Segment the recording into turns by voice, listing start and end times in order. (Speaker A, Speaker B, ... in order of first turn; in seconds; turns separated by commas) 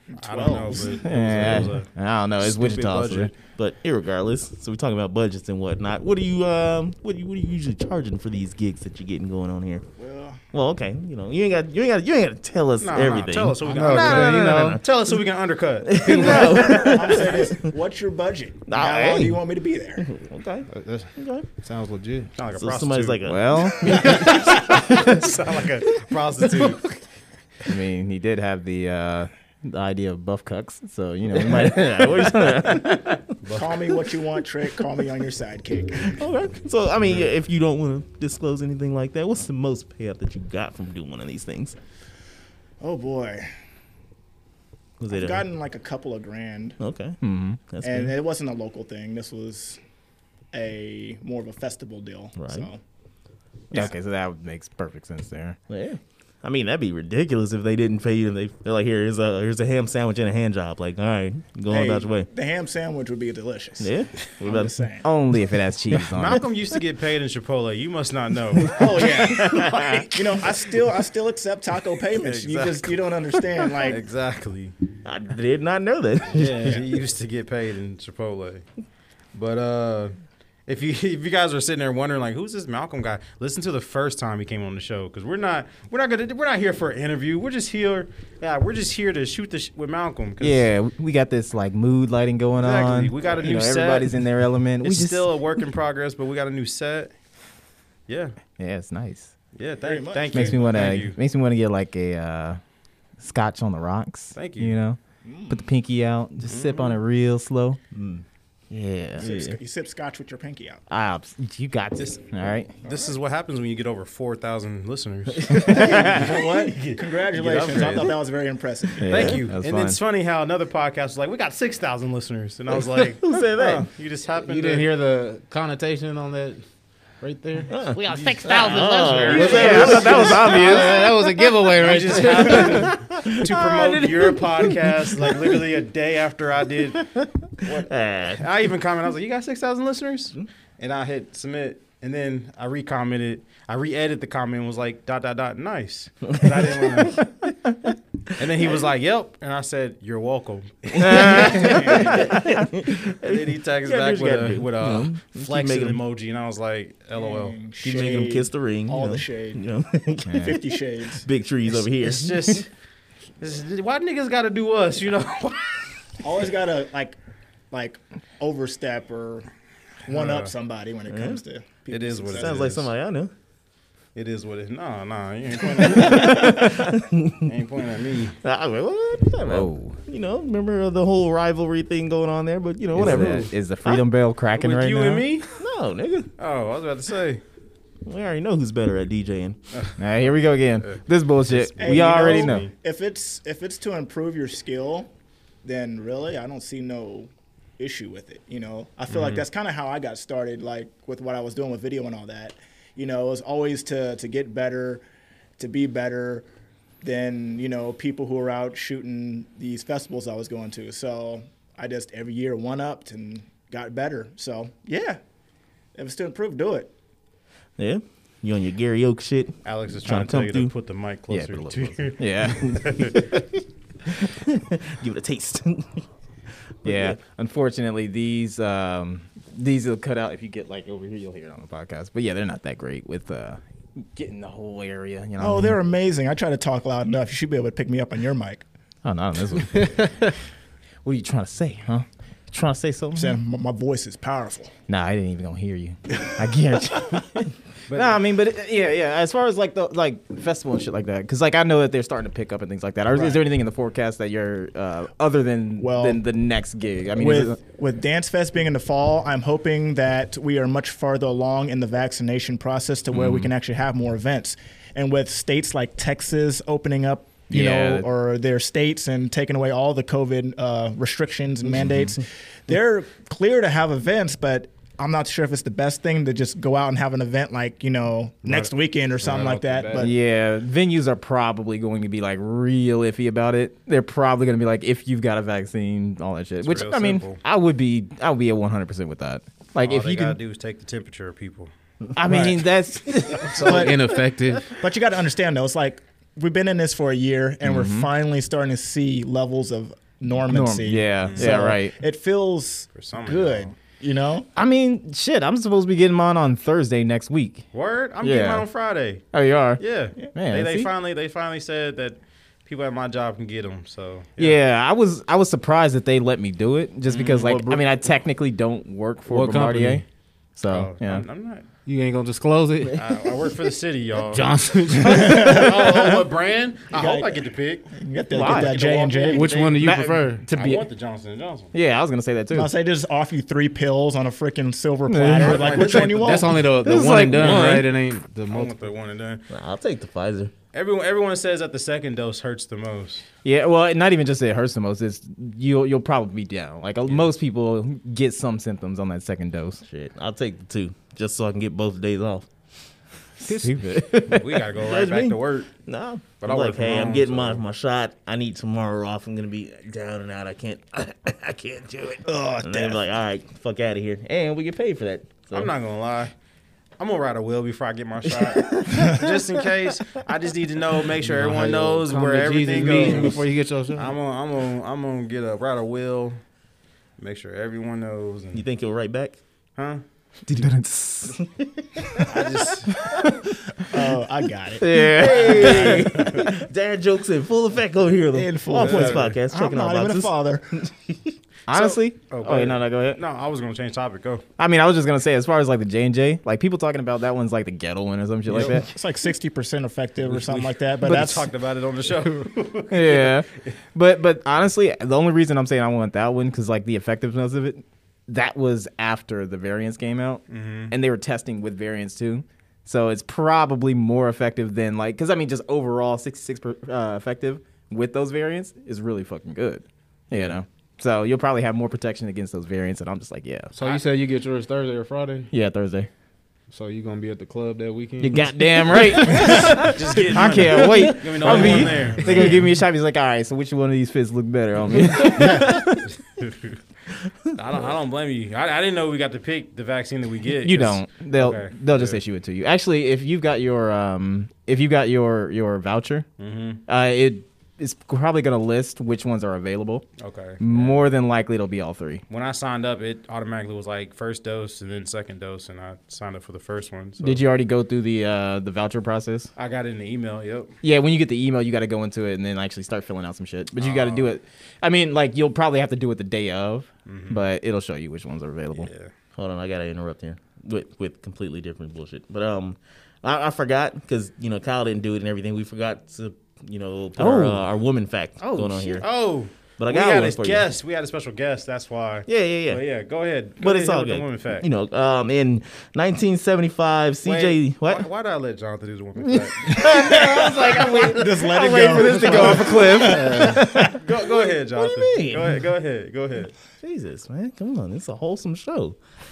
Speaker A: 0.1-1.1, Speaker B: 0.2-1.9, Speaker C: 0.9-3.3, Speaker B: 2.4-3.3, Speaker D: 3.4-9.8, Speaker A: 10.0-10.4, Speaker D: 10.5-14.8, Speaker B: 12.8-17.2, Speaker E: 13.6-14.8, Speaker D: 15.8-17.7, Speaker A: 16.1-20.1, Speaker D: 18.7-19.4, Speaker D: 20.0-21.5, Speaker E: 20.7-22.3, Speaker B: 22.4-23.2, Speaker D: 22.5-24.8, Speaker C: 23.2-24.1, Speaker B: 23.9-27.0, Speaker C: 27.7-33.1, Speaker D: 31.3-33.2, Speaker B: 33.4-33.8, Speaker A: 33.5-36.2, Speaker D: 36.0-41.8, Speaker A: 42.8-43.5, Speaker D: 45.0-45.5, Speaker A: 45.1-46.8, Speaker D: 46.8-48.1, Speaker C: 47.2-47.6, Speaker A: 47.8-49.8, Speaker A: 50.5-52.8, Speaker D: 52.4-52.7, Speaker C: 53.7-55.6, Speaker D: 55.7-62.3, Speaker A: 61.7-65.1, Speaker D: 63.8-64.9, Speaker C: 65.0-66.4, Speaker B: 65.9-69.6, Speaker A: 68.7-74.0, Speaker B: 72.2-73.0, Speaker B: 73.7-74.8, Speaker D: 75.0-76.8, Speaker B: 76.3-78.7, Speaker B: 79.3-80.1, Speaker B: 80.7-90.6, Speaker C: 90.4-95.2, Speaker B: 92.6-94.1, Speaker B: 94.8-97.1, Speaker B: 98.1-98.3, Speaker C: 98.6-99.3, Speaker B: 99.6-101.2, Speaker A: 99.8-100.8, Speaker C: 100.3-102.6, Speaker C: 103.2-107.8, Speaker B: 104.3-104.8, Speaker A: 105.2-105.6, Speaker B: 106.5-107.0, Speaker D: 107.9-109.6, Speaker A: 109.2-110.8, Speaker C: 110.9-112.7, Speaker B: 112.8-118.2, Speaker D: 115.5-116.2, Speaker A: 115.5-119.2, Speaker D: 117.5-118.1, Speaker C: 119.0-120.0, Speaker B: 119.1-124.9, Speaker D: 123.1-123.9, Speaker E: 124.4-126.6, Speaker E: 127.2-133.0, Speaker D: 127.7-131.5, Speaker B: 128.3-130.8, Speaker C: 129.3-131.0, Speaker B: 131.8-137.1, Speaker D: 132.5-135.4, Speaker D: 137.2-138.4, Speaker B: 138.3-147.2, Speaker D: 146.4-147.1, Speaker B: 148.4-152.3, Speaker D: 151.0-156.0, Speaker C: 151.0-152.7, Speaker A: 151.6-152.2, Speaker B: 153.1-157.6, Speaker A: 157.2-159.6, Speaker D: 157.8-162.6, Speaker C: 160.3-160.6, Speaker A: 160.4-161.2, Speaker B: 161.9-162.7, Speaker B: 163.4-165.8, Speaker A: 166.2-167.2, Speaker A: 167.7-169.5, Speaker A: 170.1-172.6, Speaker B: 170.1-170.5, Speaker D: 171.1-171.4, Speaker B: 171.9-172.9, Speaker D: 172.3-173.3, Speaker B: 174.2-176.9, Speaker D: 175.9-177.5, Speaker B: 177.4-178.4, Speaker D: 178.4-184.0, Speaker C: 179.4-180.0, Speaker C: 182.9-185.2, Speaker B: 183.0-183.5, Speaker B: 184.6-185.6, Speaker D: 185.6-186.3, Speaker B: 186.4-187.4, Speaker D: 188.1-189.6, Speaker B: 189.7-190.0, Speaker C: 190.0-192.7, Speaker B: 190.8-192.7, Speaker A: 191.8-195.1, Speaker A: 195.6-205.0, Speaker B: 199.1-199.4, Speaker A: 205.6-206.5, Speaker A: 207.0-215.2, Speaker A: 215.9-216.9, Speaker D: 217.8-220.7, Speaker B: 219.7-223.3, Speaker C: 221.3-223.4, Speaker D: 224.1-226.1, Speaker D: 226.8-227.2, Speaker C: 226.8-235.8, Speaker A: 235.4-238.7, Speaker C: 239.0-240.1, Speaker C: 241.0-243.4, Speaker A: 243.2-244.7, Speaker C: 244.9-257.6, Speaker B: 247.9-248.2, Speaker A: 253.2-253.4, Speaker A: 255.8-256.2, Speaker A: 257.2-280.1, Speaker C: 263.1-263.5, Speaker C: 267.5-268.1, Speaker C: 271.8-272.1, Speaker B: 278.4-278.7, Speaker E: 279.2-280.1, Speaker C: 279.9-290.4, Speaker B: 286.6-287.4, Speaker B: 289.8-291.7, Speaker C: 292.1-293.9, Speaker A: 292.3-292.6, Speaker E: 293.4-294.8, Speaker A: 293.6-294.0, Speaker A: 294.8-304.5, Speaker C: 297.6-298.1, Speaker C: 300.5-301.9, Speaker B: 301.2-301.5, Speaker B: 302.9-303.7, Speaker C: 304.6-307.6, Speaker B: 307.7-309.2, Speaker C: 308.2-308.7, Speaker C: 309.3-309.8, Speaker B: 309.8-314.6, Speaker C: 310.3-310.9, Speaker C: 314.4-320.0, Speaker B: 317.1-317.5, Speaker E: 317.2-317.9, Speaker E: 319.3-320.0, Speaker C: 320.6-321.3, Speaker B: 320.7-321.7, Speaker E: 321.9-323.1, Speaker B: 322.9-324.4, Speaker E: 324.3-325.9, Speaker B: 325.0-330.0, Speaker A: 325.1-325.9, Speaker A: 326.9-329.5, Speaker C: 328.3-328.8, Speaker E: 329.3-330.5, Speaker C: 329.8-330.9, Speaker B: 330.5-331.7, Speaker C: 331.7-332.7, Speaker A: 332.5-336.6, Speaker C: 335.1-336.0, Speaker B: 335.4-336.7, Speaker E: 335.9-338.8, Speaker C: 336.8-337.9, Speaker D: 337.4-337.9, Speaker B: 337.4-337.7, Speaker B: 338.5-339.4, Speaker D: 339.5-340.5, Speaker B: 340.7-343.2, Speaker C: 343.4-349.8, Speaker D: 349.8-352.5, Speaker C: 353.4-354.6, Speaker E: 353.4-353.8, Speaker B: 354.3-355.7, Speaker D: 354.8-365.7, Speaker B: 356.4-357.6, Speaker A: 362.2-363.0, Speaker B: 365.5-366.3, Speaker B: 367.0-376.4, Speaker D: 368.4-370.2, Speaker E: 371.2-374.1, Speaker B: 377.2-378.6, Speaker D: 378.5-379.4, Speaker B: 379.8-380.0, Speaker C: 380.5-381.4, Speaker D: 381.3-381.7, Speaker C: 382.0-382.3, Speaker B: 382.3-383.0, Speaker C: 383.0-383.5, Speaker A: 383.9-386.4, Speaker C: 384.8-385.9, Speaker D: 385.0-391.4, Speaker B: 385.2-386.5, Speaker A: 388.3-390.8, Speaker B: 388.7-389.4, Speaker C: 391.7-393.2, Speaker B: 391.7-394.4, Speaker C: 394.6-398.9, Speaker A: 398.5-401.5, Speaker B: 400.2-403.7, Speaker C: 402.9-423.7, Speaker B: 410.5-410.9, Speaker E: 423.8-425.5, Speaker B: 423.8-424.1, Speaker C: 425.5-426.1, Speaker E: 426.7-432.5, Speaker C: 428.2-436.1, Speaker B: 429.4-432.7, Speaker E: 435.3-435.8, Speaker B: 436.4-436.8, Speaker B: 437.6-442.2, Speaker C: 440.6-446.3, Speaker B: 446.4-446.8, Speaker C: 446.9-450.1, Speaker B: 450.2-451.1, Speaker C: 450.6-452.2, Speaker B: 452.3-457.4, Speaker C: 457.2-459.5, Speaker B: 459.6-460.7, Speaker C: 460.8-468.9, Speaker B: 463.8-464.4, Speaker B: 467.1-467.4, Speaker B: 468.7-469.1, Speaker D: 469.4-479.1, Speaker C: 477.2-477.6, Speaker C: 478.4-479.0, Speaker B: 479.0-484.7, Speaker D: 479.8-480.7, Speaker D: 482.3-482.8, Speaker D: 483.6-488.1, Speaker B: 487.2-489.9, Speaker C: 489.3-494.0, Speaker A: 489.8-494.0, Speaker D: 490.0-493.1, Speaker E: 493.1-493.6, Speaker B: 493.9-496.5, Speaker D: 494.8-495.6, Speaker D: 496.8-499.0